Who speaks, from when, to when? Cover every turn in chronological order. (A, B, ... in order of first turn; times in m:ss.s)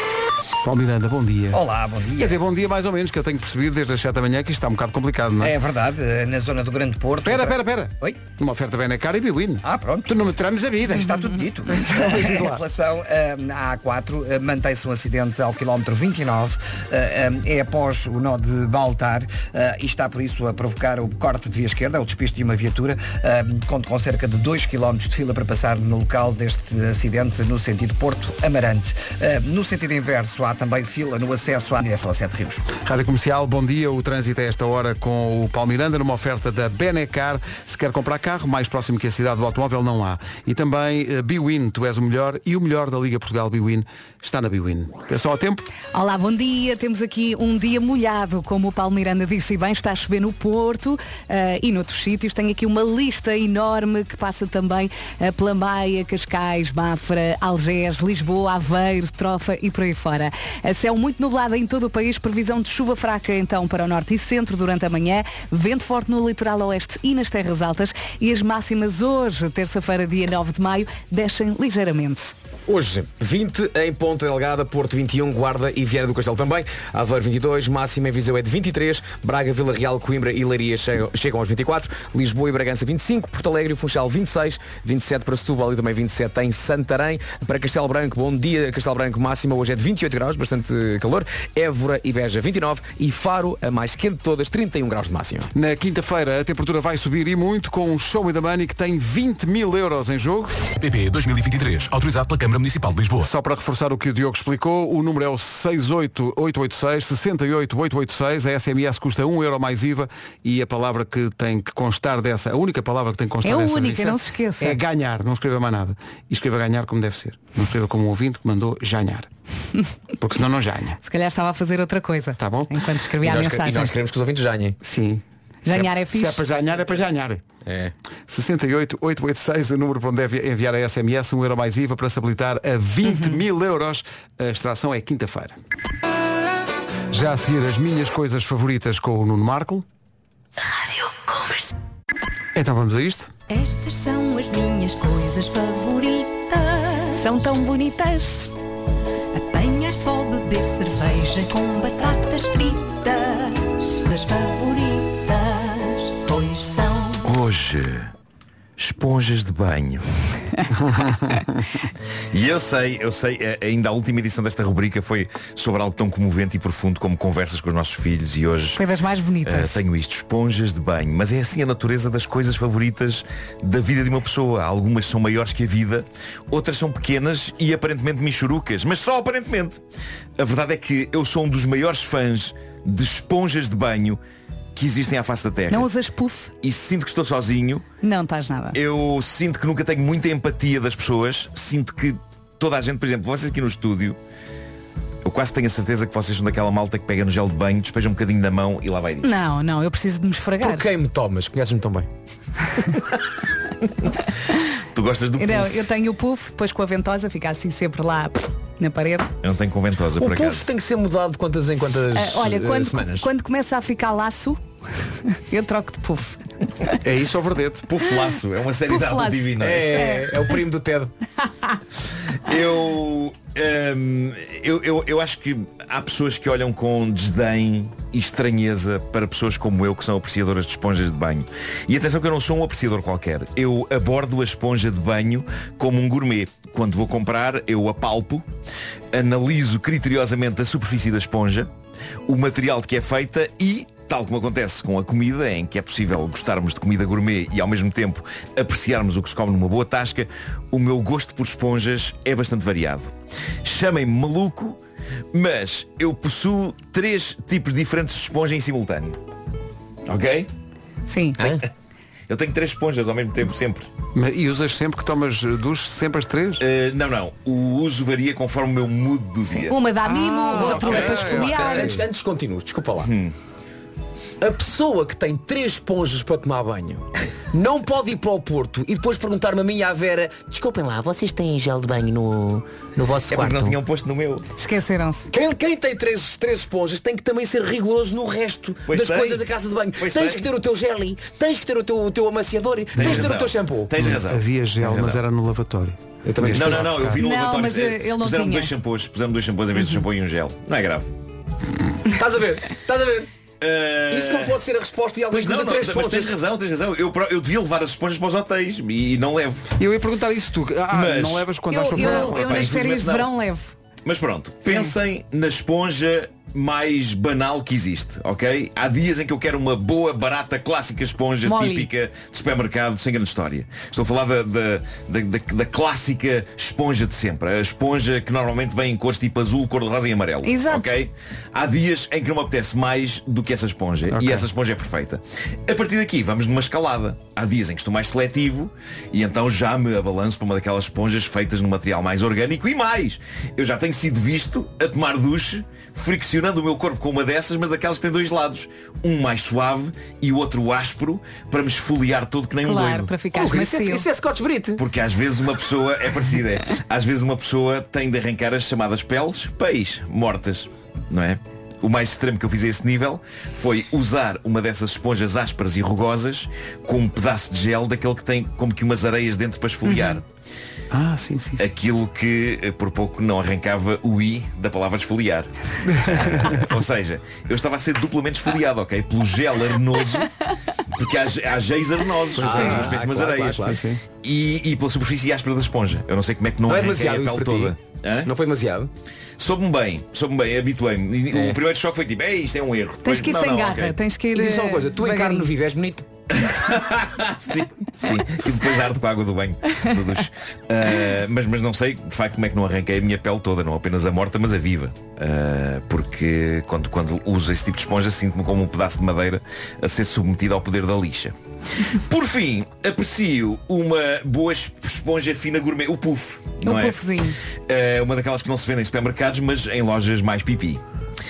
0:00.6-0:01.6 A
0:01.5-0:02.4 B
0:02.2-0:05.5 A
0:05.4-0:08.2 B
0:07.2-0:12.6 A
0:09.6-0:10.1 B
0:10.8-0:32.7 B
0:32.7-0:45.7 A
0:45.9-1:12.4 C
1:12.7-1:35.5 D
1:35.5-1:40.6 A
1:40.8-1:43.3 E
1:43.2-1:59.3 A
1:53.4-1:54.8 C
2:00.2-2:01.0 A
2:01.0-2:03.9 C
2:02.4-2:02.8 A
2:03.2-2:04.8 D
2:04.8-2:07.4 A
2:05.6-2:06.4 C
2:07.6-2:07.9 D
2:08.3-2:15.6 A
2:13.0-2:13.4 C
2:17.1-2:19.9 A
2:20.6-2:21.7 F
2:22.5-2:23.3 A
2:23.5-2:27.2 F
2:27.1-2:28.5 C
2:29.4-2:37.2 F
2:37.2-2:38.1 G
2:38.8-2:40.1 G
2:40.9-2:41.5 A
2:42.3-2:48.8 G
2:48.8-2:49.8 C
2:49.4-2:59.8 G
3:00.4-3:04.2 G
3:04.7-3:05.9 G
3:05.7-3:06.5 C
3:06.6-3:07.8 G
3:08.0-3:08.8 C
3:08.7-3:14.2 G
3:15.2-3:19.3 G
3:19.2-3:20.8 C
3:20.6-3:22.1 D
3:24.9-3:25.8 G
3:25.4-3:29.3 C
3:29.4-3:30.7 G
3:30.2-3:33.3 D
3:32.2-3:36.9 C
3:37.0-3:37.9 A
3:37.9-3:40.0 G
3:38.9-3:40.4 C
3:39.6-3:41.1 D
3:42.4-3:58.5 G
3:59.1-4:01.7 G
4:02.3-4:14.8 G
4:15.3-4:19.2 G
4:20.1-4:20.5 G
4:21.1-4:21.4 C
4:22.3-4:23.9 G
4:24.2-4:26.6 A
4:26.6-4:29.8 G
4:29.5-4:32.0 C
4:30.0-4:32.0 A
4:30.6-4:33.1 D
4:30.8-4:31.1 G
4:33.0-4:33.3 G
4:34.4-4:43.8 D
4:43.3-4:44.4 G
4:44.6-4:45.3 C
4:45.3-4:53.9 D
4:48.9-4:50.5 G
4:53.0-4:55.2 G
4:53.0-4:53.3 A
4:54.0-4:57.2 A
4:56.2-4:57.0 D
4:56.4-5:01.1 G
4:57.2-4:58.7 C
5:02.2-5:03.3 D
5:03.6-5:04.6 G
5:04.1-5:06.4 D
5:05.3-5:09.6 G
5:09.8-5:12.7 A
5:10.9-5:13.3 G
5:11.7-5:13.7 C
5:14.0-5:53.1 G
5:14.7-5:14.9 C
5:21.4-5:21.9 C
5:30.4-5:31.0 C
5:34.1-5:34.5 A
5:52.6-5:54.1 C
5:53.3-5:54.8 D
5:54.8-6:10.2 G
6:09.9-6:10.2 C
6:10.9-6:11.7 A
6:11.6-6:20.3 G
6:15.9-6:16.7 A
6:20.9-6:28.3 G
6:22.4-6:23.8 D
6:22.4-6:23.0 A
6:23.6-6:24.0 A
6:26.7-6:28.9 D
6:29.4-6:34.0 G
6:31.3-6:31.6 D
6:33.0-6:35.5 C
6:34.3-6:36.1 D
6:36.3-6:57.1 G
6:56.6-6:57.4 C
6:57.7-7:00.8 G